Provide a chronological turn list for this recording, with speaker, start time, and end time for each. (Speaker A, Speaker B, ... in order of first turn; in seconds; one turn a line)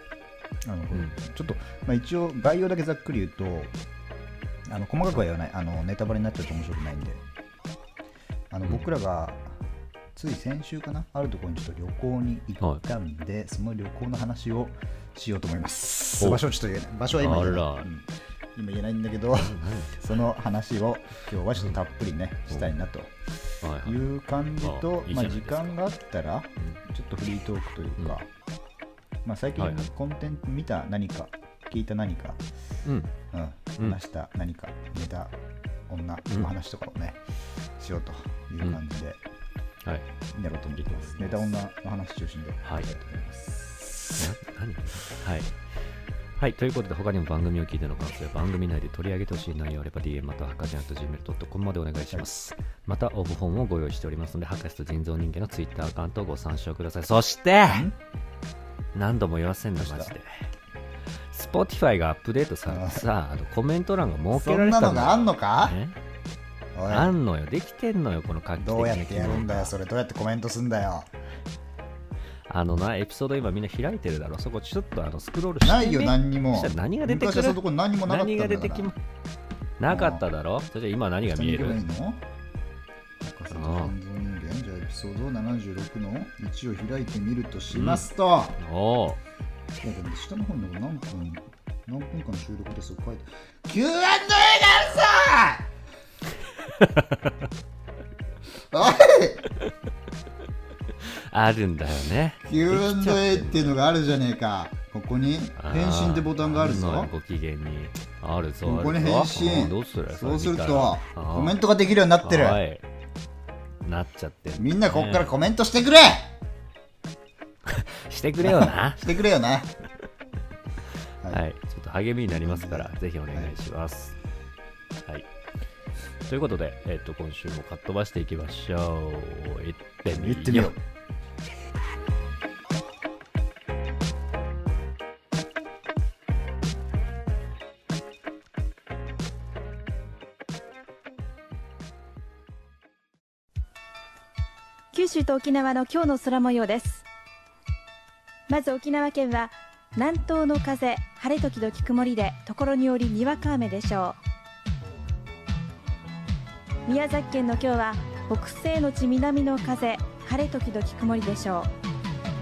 Speaker A: 0.6-3.7
Speaker A: 4.7-7.2
Speaker A: 8.5-9.6
Speaker A: 10.1-23.1
Speaker B: 16.2-16.4
Speaker B: 17.2-17.9
Speaker B: 19.4-20.0
Speaker B: 23.6-24.0
Speaker A: 23.8-28.3
Speaker B: 24.6-25.8
Speaker A: 29.2-32.4
Speaker B: 29.6-29.9
Speaker B: 32.8-33.1
Speaker A: 33.3-35.3
Speaker A: 35.9-37.2
Speaker A: 37.8-39.2
Speaker A: 40.3-44.1
Speaker B: 40.7-41.5
Speaker B: 42.6-42.9
Speaker B: 44.1-45.8
Speaker B: 46.4-57.9
Speaker A: 57.7-58.0
Speaker B: 58.9-60.5
Speaker A: 59.8-60.1
Speaker B: 61.3-66.0
Speaker A: 62.7-63.0
Speaker A: 64.3-65.8
Speaker A: 66.7-67.1
Speaker B: 66.8-69.7
Speaker A: 68.6-71.1
Speaker B: 72.5-79.0
Speaker A: 75.6-78.9
Speaker B: 79.8-81.8
Speaker A: 79.9-80.2
Speaker A: 81.2-82.2
Speaker A: 83.2-88.6
Speaker B: 83.5-83.9
Speaker B: 87.7-89.2
Speaker A: 89.8-95.7
Speaker B: 96.8-97.3
Speaker A: 98.7-99.4
Speaker B: 101.0-103.8
Speaker A: 102.4-107.1
Speaker B: 105.6-111.6
Speaker A: 108.6-112.6
Speaker B: 112.2-112.8
Speaker B: 113.8-115.4
Speaker A: 114.5-116.3
Speaker B: 117.7-119.3
Speaker A: 118.4-119.7
Speaker B: 121.3-124.2
Speaker A: 122.3-123.5
Speaker B: 126.3-130.7
Speaker A: 130.1-130.8
Speaker C: 144.9-147.0
Speaker C: 148.5-154.2
Speaker C: 156.8-161.7